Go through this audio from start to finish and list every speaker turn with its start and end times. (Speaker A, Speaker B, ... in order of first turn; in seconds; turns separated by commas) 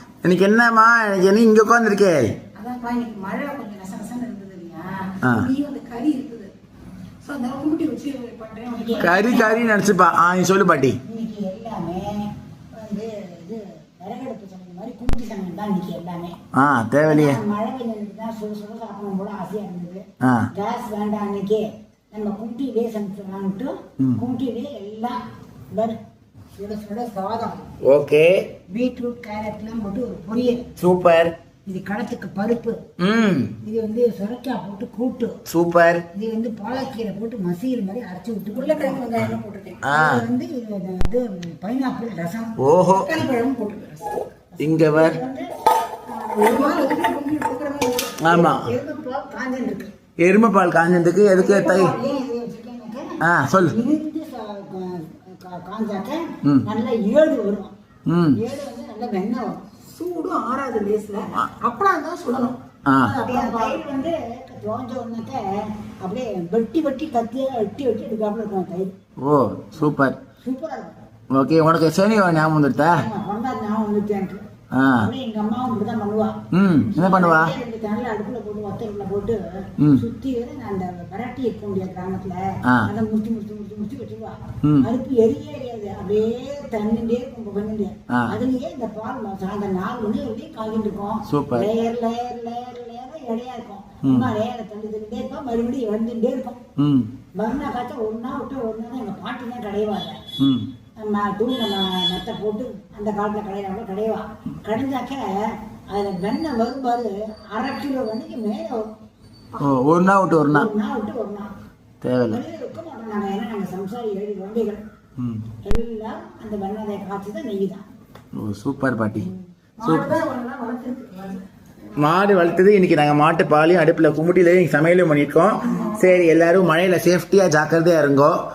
Speaker A: 0.2-2.4, Speaker B: 2.5-6.5, Speaker A: 5.2-5.5, Speaker B: 7.2-9.8, Speaker C: 8.7-9.6, Speaker A: 9.0-11.0, Speaker C: 11.0-16.4, Speaker A: 16.5-17.4, Speaker C: 17.0-25.2, Speaker A: 20.2-20.5, Speaker C: 26.6-27.7, Speaker A: 27.9-28.5, Speaker C: 28.7-30.7, Speaker A: 30.8-31.3, Speaker C: 31.7-32.8, Speaker A: 33.0-33.6, Speaker C: 33.6-35.4, Speaker A: 35.5-36.1, Speaker C: 36.1-39.2, Speaker B: 38.5-39.8, Speaker A: 39.8-40.2, Speaker C: 39.9-42.6, Speaker A: 42.6-43.2, Speaker B: 42.8-44.2, Speaker C: 44.5-45.5, Speaker A: 44.6-45.2, Speaker B: 46.2-48.6, Speaker C: 46.3-47.0, Speaker A: 48.2-48.7, Speaker C: 48.3-49.9, Speaker A: 50.2-51.9, Speaker C: 51.2-57.7, Speaker A: 53.2-53.8, Speaker A: 58.1-58.4, Speaker C: 58.3-59.6, Speaker B: 59.8-63.8, Speaker A: 62.9-63.2, Speaker C: 63.0-68.9, Speaker A: 69.2-70.2, Speaker C: 70.4-71.0, Speaker A: 71.3-73.1, Speaker C: 72.8-96.7, Speaker A: 74.7-75.1, Speaker A: 76.5-77.5, Speaker A: 84.6-84.9, Speaker A: 88.1-88.4, Speaker A: 91.3-91.7, Speaker A: 94.0-94.3, Speaker A: 96.8-97.1, Speaker C: 97.4-100.2, Speaker A: 100.4-100.7, Speaker C: 101.0-108.8, Speaker A: 109.6-110.7, Speaker C: 110.5-111.5, Speaker A: 112.0-112.4, Speaker C: 112.3-114.8, Speaker A: 115.2-115.5, Speaker C: 115.6-117.8, Speaker A: 118.3-119.3, Speaker B: 119.8-122.0, Speaker A: 119.8-120.2, Speaker A: 122.0-128.4, Speaker B: 125.7-126.1